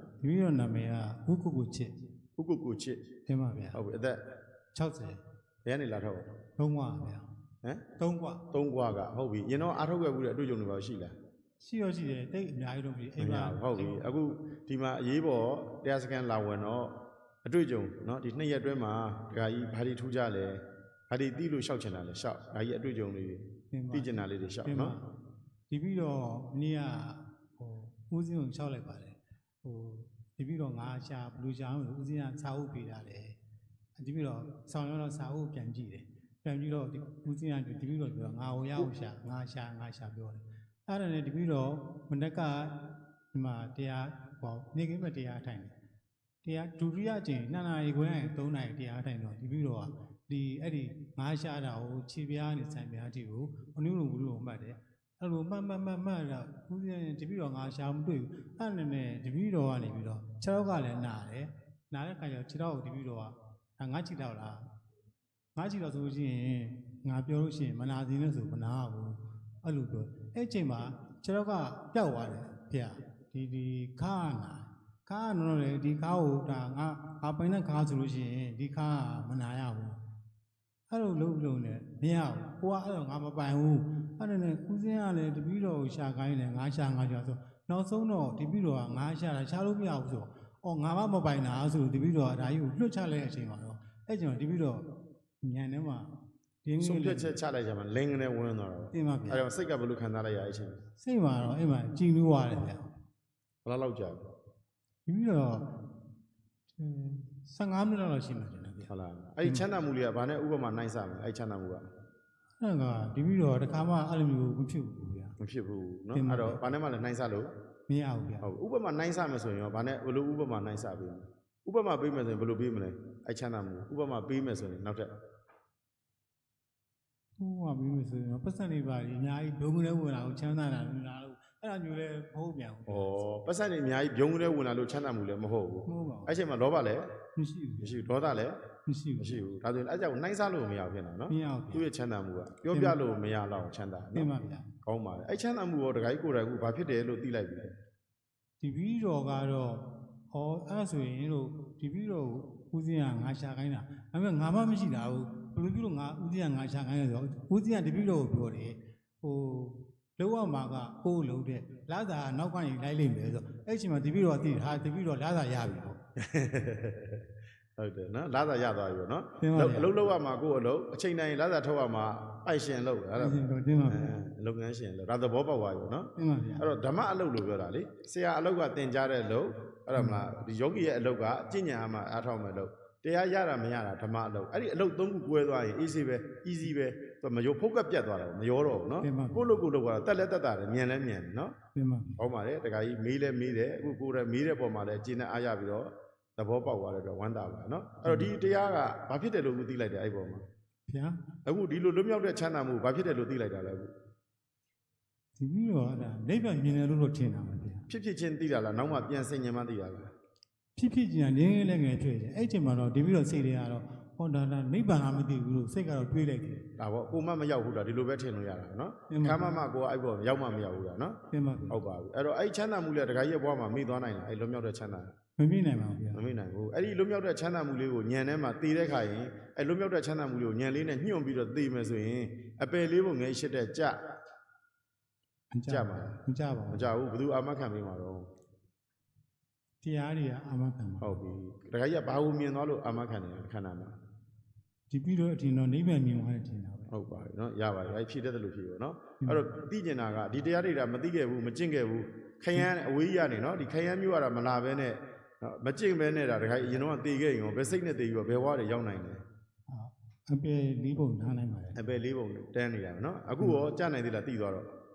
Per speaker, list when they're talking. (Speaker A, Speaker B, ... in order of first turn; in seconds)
Speaker A: 0.2-1.9, 3.3-3.8, 4.7-5.2, 6.6-7.3, 8.0-8.4, 11.6-14.0, 23.7-25.1, 25.7-33.4, 34.0-45.7, 46.4-64.6, 65.5-80.0, 80.9-94.9, 95.4-96.1, 96.6-97.3, 98.9-99.4, 101.0-102.9, 105.1-105.7, 106.8-108.9, 112.6-115.3, 116.1-116.6, 117.9-118.5, 127.4-133.1, 135.9-136.4, 137.3-138.0, 138.8-139.4, 141.3-141.9, 142.7-143.0, 144.1-144.7, 148.6-166.0, 169.4-169.9, 173.2-174.1, 176.2-176.7, 179.9-180.3, 189.0-189.6, 191.7-192.2, 198.0-198.3, 200.9-201.2, 205.4-207.9, 210.8-216.6, 219.1-219.5, 221.3-221.8, 225.4-226.3, 235.5-236.9, 239.8-241.2, 244.9-246.9, 249.2-249.5, 259.7-261.8
Speaker B: 2.4-3.0, 3.7-4.2, 5.6-6.3, 8.5-11.1, 13.2-24.9, 96.8-100.8, 103.6-104.3, 108.9-111.8, 115.4-117.5, 118.4-125.1, 132.9-137.1, 137.8-138.6, 139.2-144.3, 144.8-147.7, 166.2-167.2, 167.8-191.5, 192.2-200.4, 201.4-203.9, 207.9-210.1, 216.8-221.2, 221.7-225.1, 226.1-234.0, 235.7-236.2, 236.7-238.3, 241.0-243.9, 246.9-259.2, 261.8-264.7